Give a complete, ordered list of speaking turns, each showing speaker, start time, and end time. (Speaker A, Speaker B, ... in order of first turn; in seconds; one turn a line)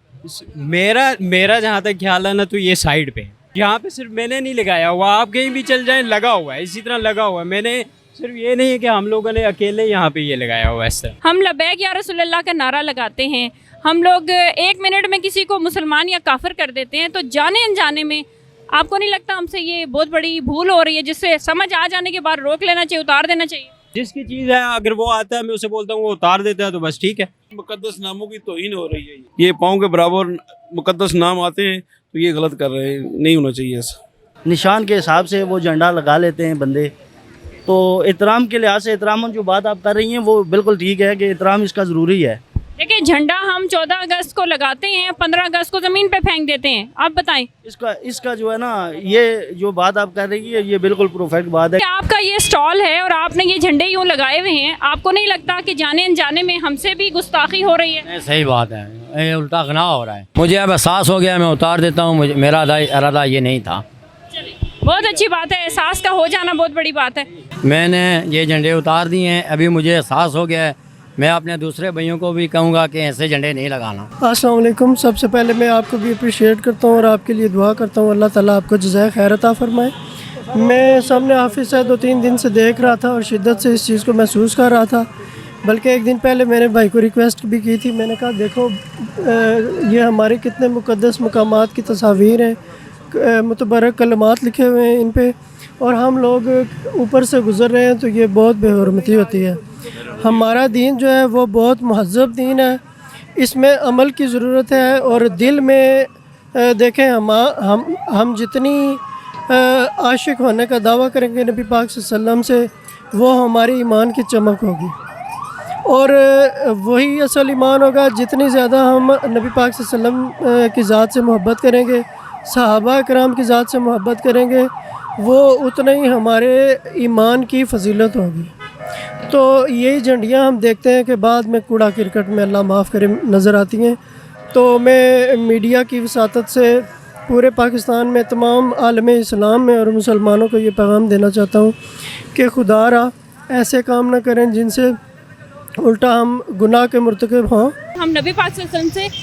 Speaker A: 0.3-11.2
Speaker B: 11.2-23.7
Speaker A: 23.9-27.3
Speaker C: 27.5-34.0
Speaker D: 34.5-36.9
Speaker D: 37.7-42.4
Speaker B: 42.8-47.5
Speaker D: 47.6-51.8
Speaker B: 51.8-58.1
Speaker E: 58.1-63.8
Speaker B: 64.3-67.3
Speaker E: 67.6-74.1
Speaker F: 74.2-79.9
Speaker F: 80.5-85.1
Speaker F: 85.6-92.6
Speaker F: 93.1-99.6
Speaker F: 100.2-102.8
Speaker F: 103.4-114.9
Speaker F: 115.9-128.5
Speaker F: 129.2-134.0
Speaker F: 134.5-141.8
Speaker F: 142.3-145.0
Speaker F: 145.8-147.8
Speaker B: 148.0-149.1